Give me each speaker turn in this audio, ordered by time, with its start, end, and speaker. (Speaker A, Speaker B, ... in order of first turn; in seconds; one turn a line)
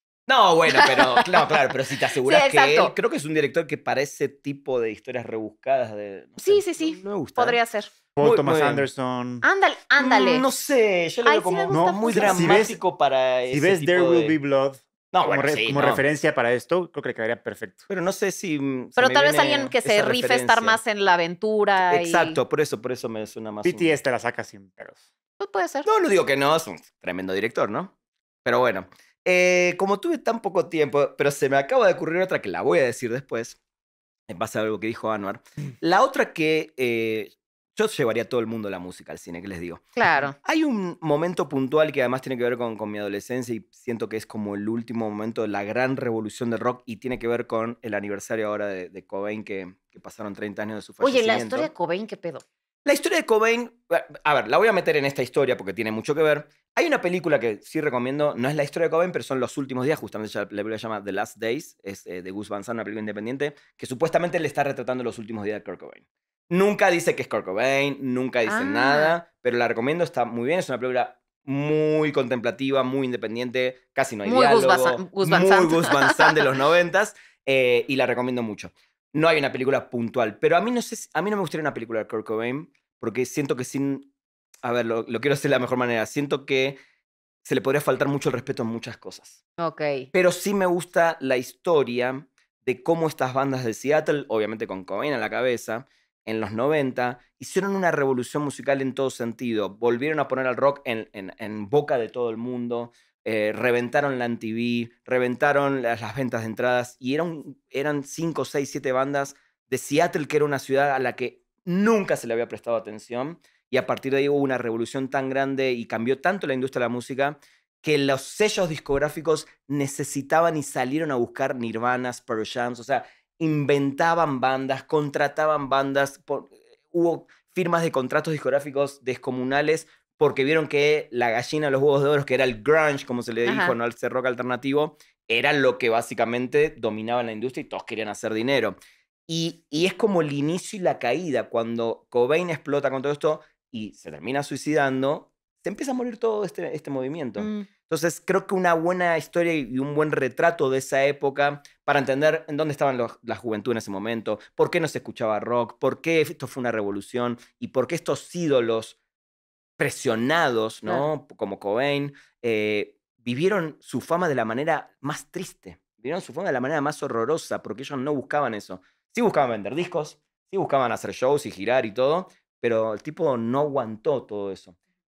Speaker A: 0.3-7.6
Speaker B: 0.7-1.6
Speaker B: 2.2-2.9
Speaker B: 6.4-7.9
Speaker C: 8.2-9.4
Speaker A: 8.2-8.9
Speaker B: 9.4-10.4
Speaker A: 10.0-14.4
Speaker B: 11.2-12.6
Speaker C: 11.7-12.8
Speaker C: 13.5-17.8
Speaker A: 15.1-16.0
Speaker A: 17.9-20.8
Speaker B: 19.0-22.4
Speaker A: 21.9-23.9
Speaker C: 23.6-25.0
Speaker B: 25.4-25.9
Speaker A: 25.8-27.9
Speaker A: 28.4-33.6
Speaker A: 34.3-39.8
Speaker B: 40.0-40.4
Speaker A: 40.4-51.7
Speaker B: 51.0-52.4
Speaker A: 52.8-84.1
Speaker B: 68.5-69.1
Speaker B: 74.2-76.4
Speaker A: 84.6-86.8
Speaker A: 87.4-89.4
Speaker B: 89.6-90.1
Speaker A: 90.1-158.9
Speaker B: 133.4-133.7
Speaker B: 147.4-147.7
Speaker A: 159.8-174.8